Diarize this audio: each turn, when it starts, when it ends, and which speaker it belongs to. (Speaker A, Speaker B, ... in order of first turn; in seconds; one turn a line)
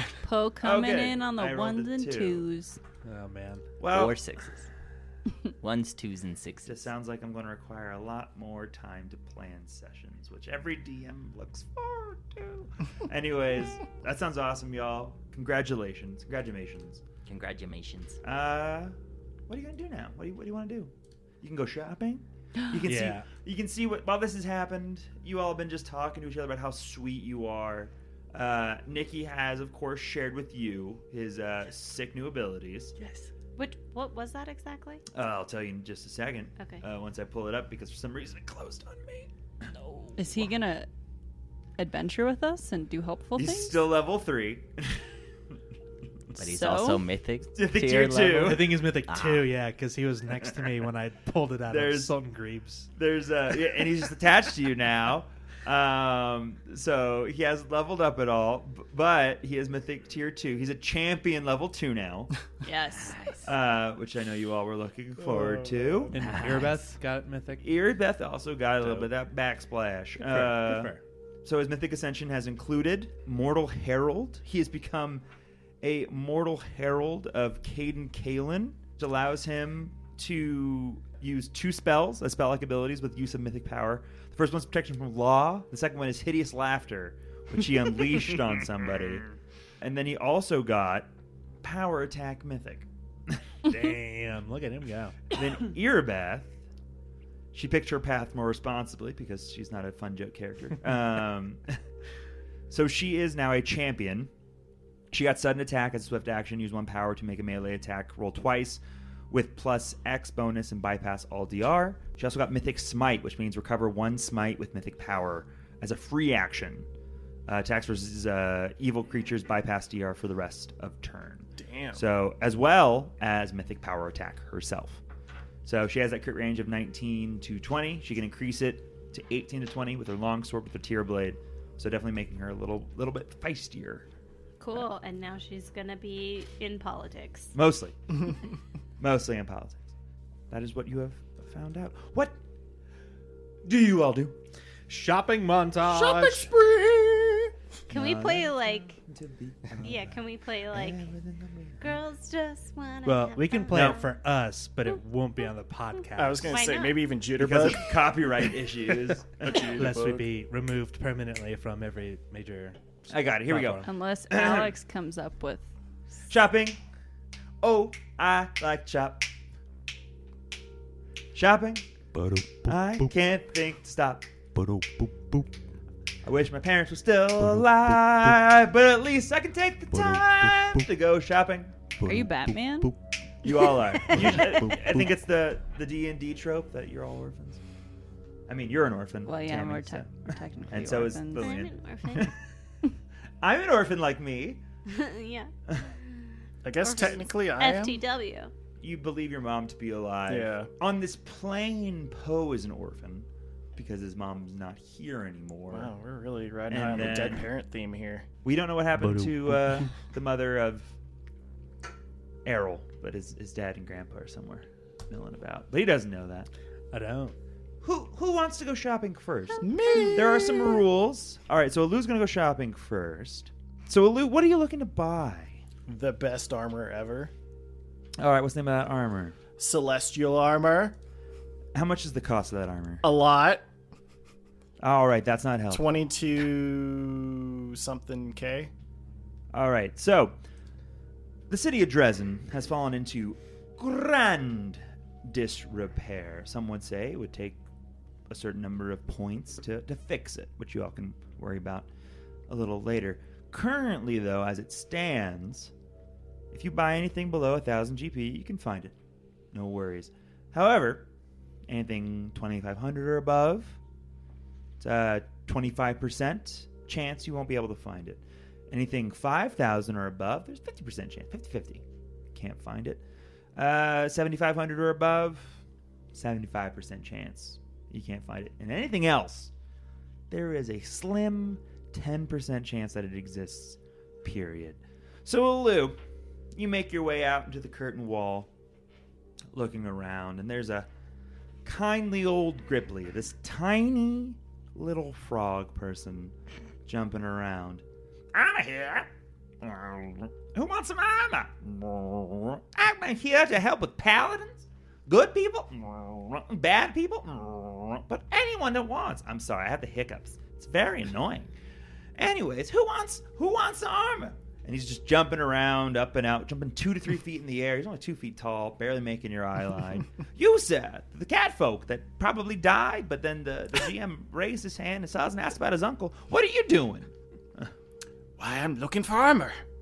Speaker A: 0.2-2.8
Speaker B: 0.6-2.5
Speaker C: 3.0-3.7
Speaker B: 3.8-4.2
Speaker D: 3.9-4.7
Speaker D: 5.6-6.8
Speaker B: 6.7-17.0
Speaker D: 17.3-18.2
Speaker B: 18.2-18.9
Speaker B: 19.5-32.9
Speaker C: 22.9-23.3
Speaker D: 33.0-33.3
Speaker E: 33.6-35.0
Speaker B: 35.1-39.3
Speaker E: 36.6-36.8
Speaker D: 39.8-40.2
Speaker A: 40.2-40.9
Speaker A: 41.8-43.8
Speaker B: 43.4-45.0
Speaker D: 46.4-49.5
Speaker A: 46.4-47.0
Speaker B: 47.6-48.8
Speaker C: 48.4-52.9
Speaker B: 51.7-52.1
Speaker B: 53.0-62.3
Speaker A: 62.6-63.3
Speaker D: 62.9-63.4
Speaker B: 63.5-66.2
Speaker F: 65.2-66.3
Speaker C: 66.1-67.7
Speaker D: 66.2-66.9
Speaker B: 67.6-75.2
Speaker C: 68.8-69.1
Speaker C: 70.2-71.0
Speaker B: 75.8-89.2
Speaker B: 89.8-91.1
Speaker B: 91.6-93.4
Speaker C: 93.6-95.3
Speaker B: 95.3-96.6
Speaker B: 97.5-101.7
Speaker B: 102.7-104.3
Speaker B: 105.1-116.9
Speaker B: 117.5-125.0
Speaker F: 121.6-122.0
Speaker B: 125.7-134.1
Speaker E: 134.6-137.6
Speaker B: 137.5-138.0
Speaker B: 139.0-139.9
Speaker B: 140.5-142.4
Speaker B: 143.7-144.3
Speaker C: 144.9-146.5
Speaker F: 145.8-147.5
Speaker E: 147.9-149.0
Speaker B: 147.9-152.0
Speaker E: 149.8-151.1
Speaker E: 151.8-154.1
Speaker C: 153.1-156.8
Speaker B: 153.7-154.0
Speaker F: 156.2-158.4
Speaker E: 156.4-157.1
Speaker B: 157.4-159.8
Speaker F: 159.4-160.3
Speaker C: 159.7-163.9
Speaker B: 163.1-164.7
Speaker A: 163.8-165.7
Speaker B: 166.3-166.8
Speaker B: 167.6-169.3
Speaker B: 171.3-171.9
Speaker C: 172.2-173.0
Speaker B: 172.6-174.3
Speaker C: 174.6-175.5
Speaker B: 176.2-181.8
Speaker A: 182.0-183.0
Speaker C: 182.1-182.9
Speaker B: 183.4-187.6
Speaker C: 184.2-184.9
Speaker B: 188.5-192.3
Speaker A: 189.2-191.6
Speaker E: 191.4-192.3
Speaker B: 193.4-194.6
Speaker E: 194.9-195.5
Speaker F: 196.6-198.0
Speaker E: 196.8-198.5
Speaker B: 198.8-205.9
Speaker F: 200.3-200.7
Speaker F: 205.7-208.3
Speaker B: 206.7-207.5
Speaker B: 208.4-210.9
Speaker C: 209.0-209.8
Speaker B: 212.4-216.5
Speaker C: 216.9-217.4
Speaker B: 217.8-225.6
Speaker F: 219.6-220.8
Speaker F: 225.9-227.3
Speaker B: 228.2-229.4
Speaker F: 229.6-230.9
Speaker B: 231.8-233.1
Speaker F: 233.0-233.6
Speaker B: 234.8-235.9
Speaker F: 235.7-238.7
Speaker B: 239.5-240.3
Speaker B: 241.5-247.6
Speaker B: 248.3-251.9
Speaker B: 252.5-255.7
Speaker B: 256.5-258.9
Speaker B: 259.5-261.1
Speaker B: 261.7-263.8
Speaker B: 264.8-273.0
Speaker B: 273.6-275.6
Speaker B: 276.1-279.5
Speaker B: 280.3-286.0
Speaker B: 286.6-288.5
Speaker B: 289.5-290.9
Speaker B: 291.6-296.4
Speaker B: 296.9-299.1
Speaker B: 299.6-311.5
Speaker B: 312.2-327.7
Speaker F: 328.4-329.6